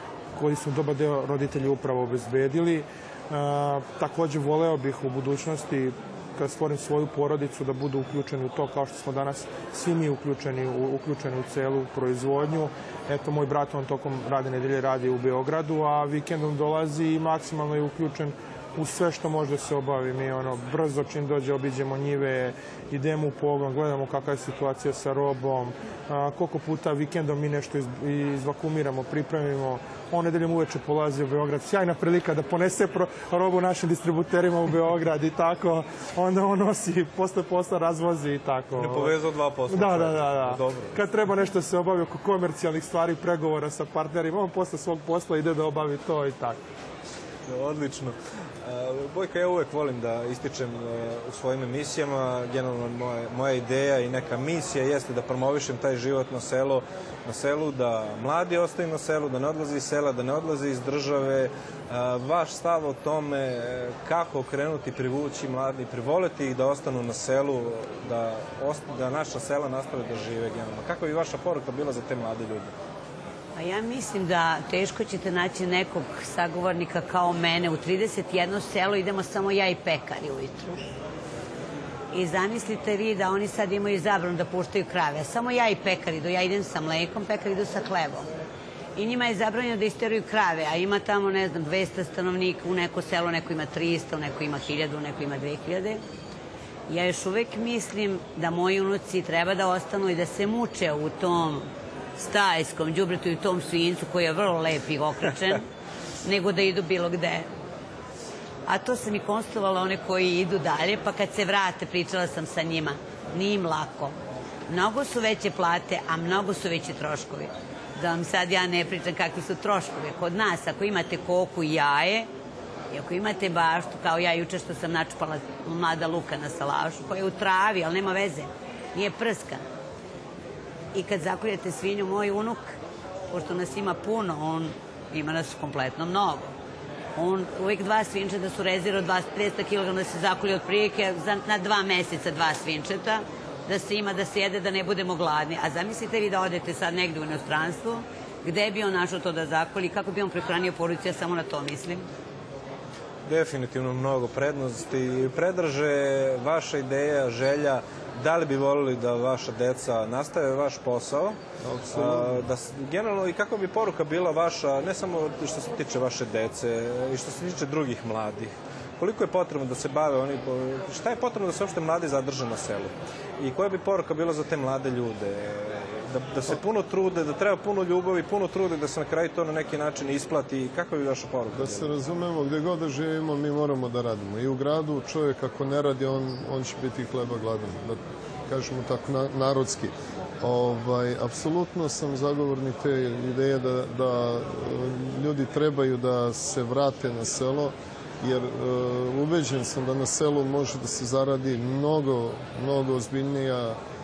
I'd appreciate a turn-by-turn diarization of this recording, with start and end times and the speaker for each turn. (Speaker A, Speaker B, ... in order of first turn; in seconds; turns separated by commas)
Speaker A: 0.3-39.1, Speaker B: 38.8-41.0, Speaker A: 39.7-46.6, Speaker B: 47.5-72.7, Speaker C: 73.5-80.8, Speaker C: 82.1-88.3, Speaker C: 89.0-96.0, Speaker C: 96.9-105.6, Speaker C: 106.2-107.5, Speaker C: 108.7-114.2, Speaker C: 114.7-122.3, Speaker C: 122.9-129.6, Speaker C: 130.9-132.7, Speaker C: 133.3-136.5, Speaker C: 137.2-152.1, Speaker B: 153.2-161.4, Speaker D: 161.6-162.4, Speaker B: 161.9-181.9, Speaker D: 181.5-203.8